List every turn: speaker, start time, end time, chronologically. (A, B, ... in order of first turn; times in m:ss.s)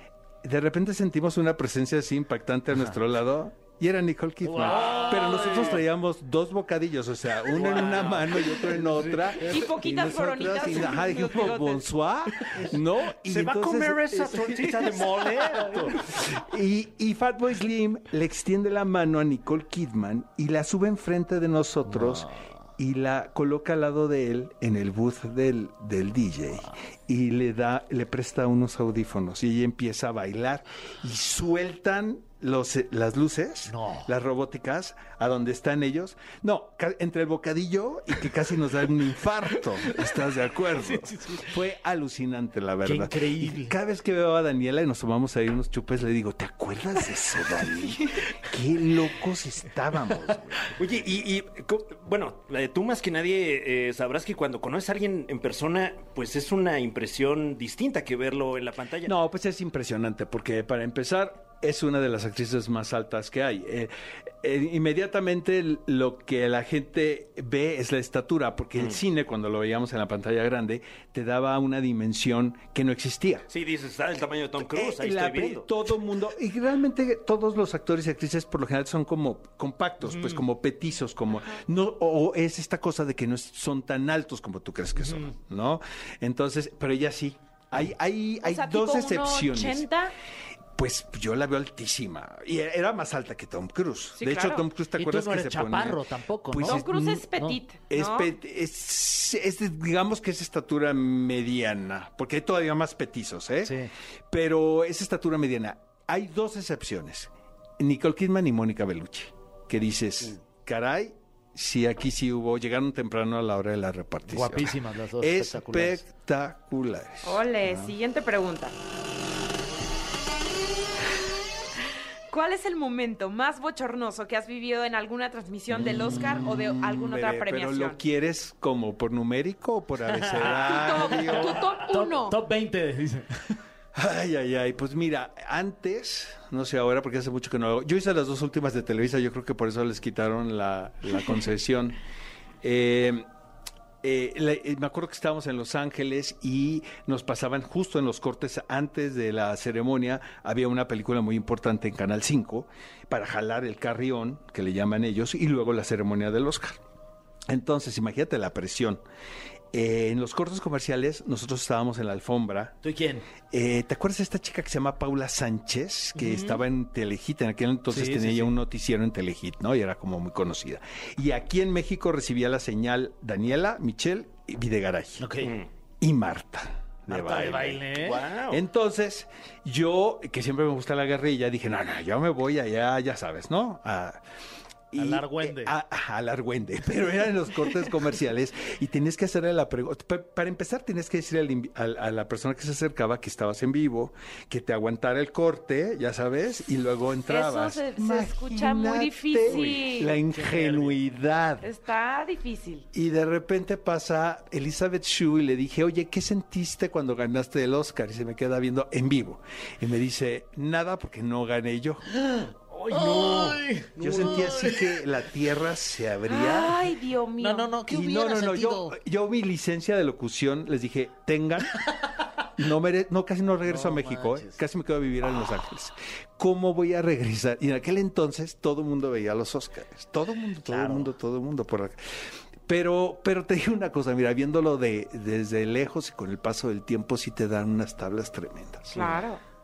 0:00.4-0:50.8 A
0:04.4-0:05.8 B
0:04.6-0:05.8 C
0:07.5-0:09.2 C
0:09.4-0:11.8 D
0:12.4-0:16.2 C
0:33.7-0:34.1 B
0:40.8-0:41.5 B
0:42.8-0:43.7 B
0:50.7-0:59.1 C
0:59.0-1:13.5 A
1:13.5-1:15.7 C
1:14.6-1:29.9 A
1:20.1-1:20.4 B
1:25.0-1:25.3 B
1:28.4-1:30.1 D
1:30.8-1:37.3 A
1:34.2-1:34.6 D
1:35.0-1:37.6 B
1:36.6-1:38.3 D
1:37.9-1:43.8 A
1:43.6-1:43.9 B
1:44.3-1:57.9 A
1:54.3-1:56.0 B
1:57.2-1:58.7 D
2:02.3-2:08.0 D
2:05.7-2:11.6 A
2:10.1-2:13.6 B
2:10.4-2:12.4 D
2:13.9-2:22.0 A
2:22.6-2:23.2 A
2:24.0-2:36.8 A
2:37.5-2:39.0 A
2:39.7-2:42.8 A
2:42.8-2:43.2 B
2:43.5-2:55.3 A
2:46.2-2:46.6 B
2:47.9-2:48.5 B
2:55.2-2:55.6 B
2:56.0-3:04.2 A
2:57.1-2:58.2 B
2:58.0-2:58.6 C
3:04.9-3:21.7 A
3:05.0-3:05.7 B
3:17.3-3:20.1 D
3:20.2-3:21.0 B
3:21.6-3:22.8 D
3:22.9-3:32.0 A
3:32.2-3:34.8 B
3:32.7-3:34.7 C
3:34.0-3:36.9 A
3:36.3-3:37.8 D
3:37.4-3:39.0 B
3:37.8-3:41.9 A
3:42.6-3:59.2 A
3:43.6-3:44.6 B
3:50.7-3:51.1 B
3:58.9-3:59.4 D